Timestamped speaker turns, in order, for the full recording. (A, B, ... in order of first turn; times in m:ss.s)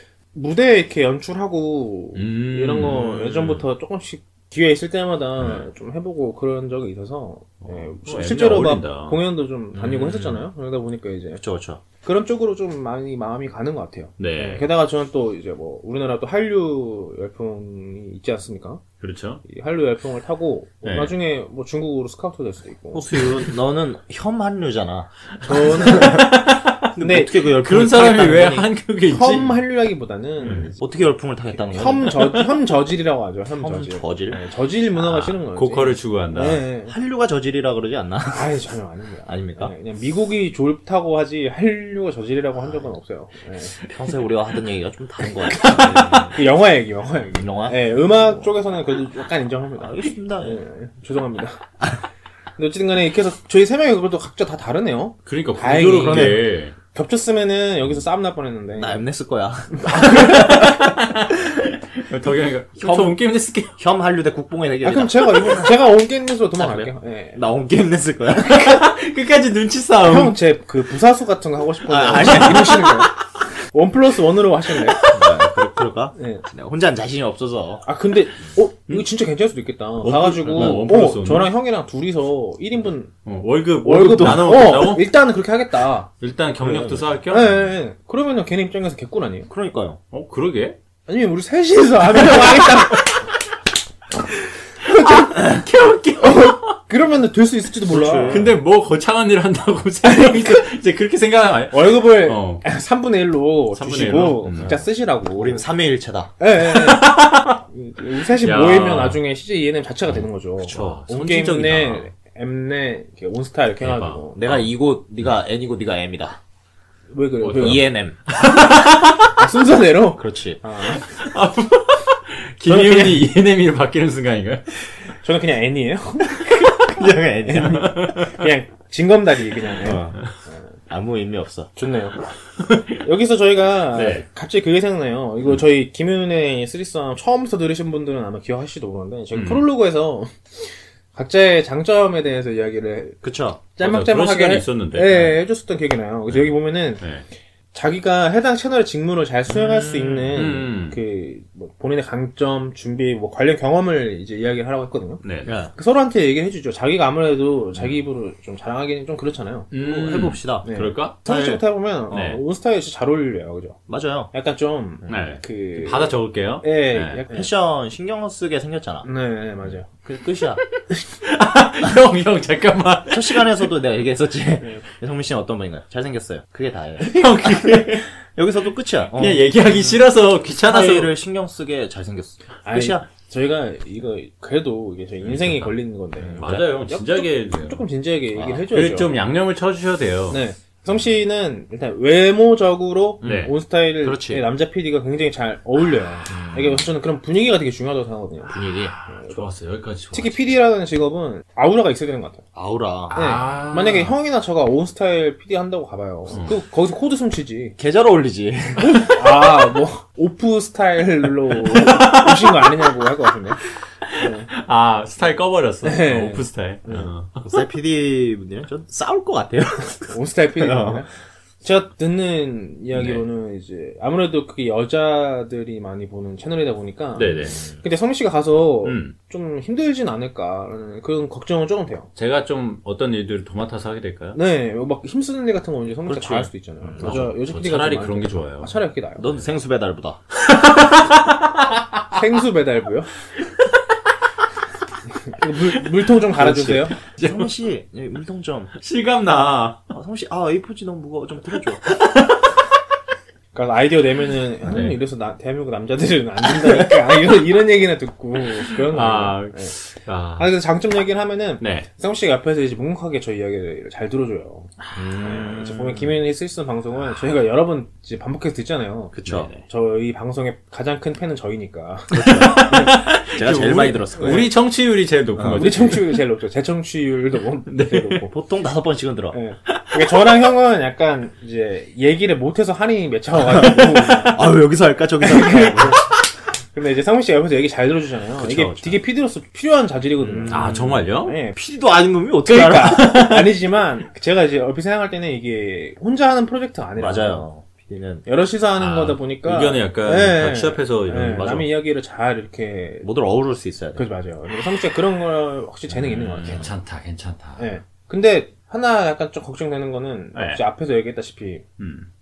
0:00.3-0:11.4 A
0:02.1-0:03.6 B
0:05.4-0:05.6 C
0:07.6-0:09.2 B
0:09.7-0:10.4 C
0:11.4-0:11.8 C
0:12.0-0:18.8 A
0:14.2-0:14.7 B
0:19.0-0:19.4 B
0:19.4-0:23.1 A
0:20.8-0:21.1 B
0:22.9-0:26.4 C
0:25.4-0:26.3 A
0:25.6-0:26.9 B
0:26.9-0:28.7 C
0:27.0-0:27.3 A
0:27.4-0:29.5 B
0:29.1-0:30.7 A
0:30.4-0:30.7 B
0:30.4-0:32.2 C
0:31.6-0:36.9 A
0:33.6-0:34.4 C
0:35.0-0:36.6 B
0:36.9-0:38.5 C
0:38.3-0:43.8 A
0:39.2-0:39.7 C
0:42.6-0:42.9 C
0:43.9-0:46.4 C
0:45.4-0:46.4 B
0:46.3-0:51.6 A
0:47.3-0:48.5 C
0:49.8-0:50.6 C
0:52.6-0:59.0 A
0:55.2-0:56.7 B
0:56.0-0:56.4 C
0:58.7-1:00.9 C
0:59.7-1:00.7 A
0:59.9-1:03.8 B
1:02.8-1:03.2 C
1:03.8-1:05.7 C
1:04.8-1:07.4 A
1:07.3-1:08.8 C
1:08.4-1:10.4 B
1:10.0-1:13.1 A
1:11.9-1:13.0 C
1:12.2-1:13.0 B
1:13.7-1:15.0 A
1:14.8-1:15.5 B
1:15.1-1:17.8 C
1:16.1-1:16.4 A
1:17.8-1:23.1 A
1:20.0-1:21.5 B
1:20.5-1:20.8 C
1:23.2-1:25.1 B
1:23.8-1:26.1 A
1:26.2-1:27.5 B
1:26.6-1:27.0 C
1:26.6-1:29.5 A
1:29.5-1:30.0 C
1:30.1-1:30.8 B
1:31.1-1:33.2 A
1:32.2-1:33.2 B
1:34.8-1:36.8 B
1:34.8-1:35.5 A
1:36.2-1:38.5 A
1:37.9-1:38.6 C
1:38.3-1:42.6 B
1:40.0-1:40.6 A
1:41.7-1:45.6 A
1:43.7-1:44.8 B
1:44.6-1:46.3 C
1:46.4-1:54.4 A
1:46.6-1:47.6 B
1:48.3-1:49.2 B
1:50.1-1:52.1 B
1:53.8-1:54.6 B
1:54.4-1:56.4 C
1:57.1-1:57.8 A
1:57.4-1:59.3 B
1:57.6-1:58.2 C
1:59.3-2:01.2 A
2:00.2-2:00.6 C
2:00.9-2:04.8 B
2:02.7-2:03.3 A
2:05.2-2:06.5 A
2:06.8-2:08.2 C
2:07.4-2:10.8 A
2:07.6-2:08.2 B
2:09.8-2:10.2 C
2:10.9-2:11.7 C
2:11.8-2:12.3 A
2:12.6-2:13.0 B
2:13.0-2:23.2 A
2:13.9-2:14.2 B
2:19.3-2:19.7 B
2:23.2-2:23.6 C
2:23.8-2:27.0 A
2:23.8-2:25.4 B
2:26.3-2:27.2 B
2:27.7-2:35.2 A
2:29.5-2:30.5 C
2:30.3-2:31.0 B
2:35.2-2:35.5 B
2:35.4-2:35.7 C
2:35.7-2:39.7 A
2:39.7-2:41.2 B
2:39.8-2:40.7 C
2:40.6-2:43.8 A
2:41.2-2:41.6 C
2:42.1-2:42.4 B
2:43.9-2:44.3 C
2:44.3-2:47.5 A
2:45.1-2:47.2 B
2:47.3-2:49.0 C
2:49.0-2:49.9 A
2:49.6-2:50.6 C
2:51.2-2:53.7 B
2:53.1-3:00.0 C
2:57.0-2:58.1 B
2:59.1-3:01.1 B
3:00.6-3:03.1 C
3:02.6-3:09.2 A
3:05.2-3:05.7 B
3:06.2-3:06.6 C
3:06.3-3:07.8 B
3:08.3-3:08.6 C
3:08.7-3:10.4 B
3:10.3-3:18.5 A
3:13.2-3:13.5 B
3:14.0-3:14.4 C
3:16.3-3:16.9 C
3:18.5-3:18.9 C
3:18.5-3:20.5 B
3:19.1-3:19.5 A
3:20.1-3:22.4 A
3:22.5-3:23.2 C
3:23.1-3:24.2 B
3:23.1-3:27.8 A
3:26.3-3:26.6 B
3:27.8-3:29.0 C
3:28.8-3:33.6 A
3:31.7-3:32.7 B
3:34.0-3:37.4 B
3:34.2-3:34.5 A
3:35.8-3:37.1 A
3:37.4-3:41.0 C
3:40.1-3:41.1 A
3:41.6-3:52.1 A
3:42.9-3:43.2 B
3:47.2-3:47.6 B
3:47.2-3:47.8 C
3:48.8-3:49.1 B
3:52.2-3:54.4 B
3:54.3-3:59.3 A
3:56.0-3:57.3 C
3:57.0-3:58.8 B
3:59.2-4:00.2 C
4:00.3-4:02.2 B
4:02.1-4:03.1 A
4:03.4-4:03.7 B
4:05.1-4:07.0 A
4:05.7-4:06.1 B
4:06.4-4:08.7 C
4:06.6-4:07.5 B
4:08.8-4:09.9 B
4:09.9-4:11.9 C
4:11.8-4:12.6 B
4:13.5-4:19.8 A
4:14.6-4:15.0 B
4:18.7-4:20.5 B
4:20.4-4:33.0 A
4:21.6-4:21.9 B
4:24.8-4:25.5 B
4:25.0-4:26.2 C
4:29.1-4:29.5 C
4:29.2-4:29.6 B
4:32.1-4:34.5 C
4:32.2-4:36.2 B
4:34.2-4:34.5 A
4:35.3-4:35.9 C
4:35.5-4:38.3 A
4:37.6-4:38.2 B
4:38.3-4:39.4 C
4:39.3-4:44.5 A
4:39.7-4:40.1 B
4:43.5-4:46.0 C
4:45.2-4:46.1 A
4:46.7-4:51.6 A
4:48.4-4:49.0 C
4:50.2-4:53.2 C
4:50.5-4:51.4 B
4:52.4-4:57.5 A
4:52.7-4:53.5 B
4:57.0-4:58.2 C
4:58.2-5:03.1 A
4:58.8-5:01.7 B
5:03.0-5:04.0 C
5:03.9-5:06.7 A
5:05.9-5:06.7 C
5:06.1-5:07.6 B
5:07.6-5:11.6 A
5:10.3-5:10.6 B
5:11.8-5:12.1 B